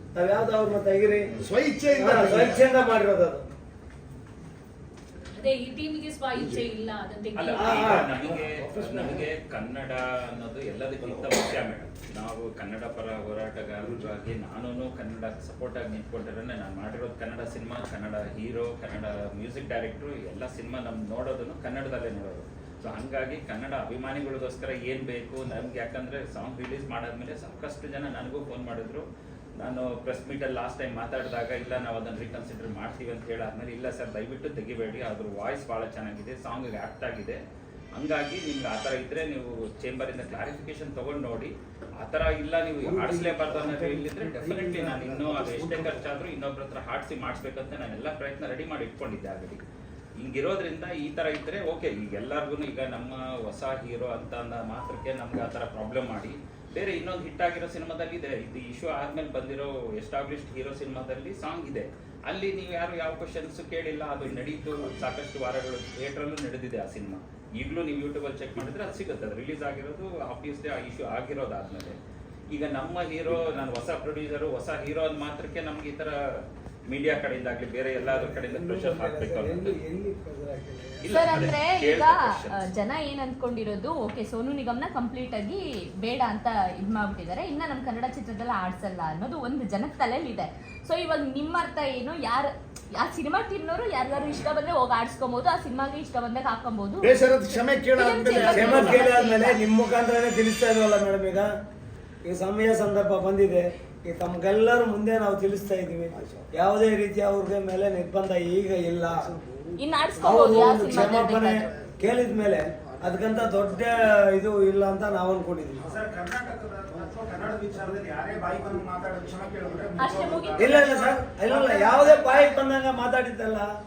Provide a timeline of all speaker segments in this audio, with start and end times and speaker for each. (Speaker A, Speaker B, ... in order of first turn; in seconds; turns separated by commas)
Speaker A: 0.1-1.2, Speaker B: 1.4-2.6, Speaker A: 1.9-3.4, Speaker C: 5.4-7.9, Speaker D: 7.3-29.0, Speaker A: 7.6-8.1, Speaker B: 8.1-9.1, Speaker D: 29.6-37.4, Speaker D: 37.9-49.6, Speaker A: 42.8-45.9, Speaker D: 50.2-72.0, Speaker D: 72.5-79.8, Speaker A: 78.0-81.3, Speaker D: 81.0-82.7, Speaker E: 81.1-97.0, Speaker B: 97.0-99.0, Speaker E: 98.0-99.6, Speaker A: 98.4-101.5, Speaker A: 102.2-109.3, Speaker B: 106.1-106.4, Speaker E: 109.8-111.6, Speaker A: 110.2-115.9, Speaker F: 115.9-122.6, Speaker E: 120.0-120.7, Speaker A: 120.6-123.7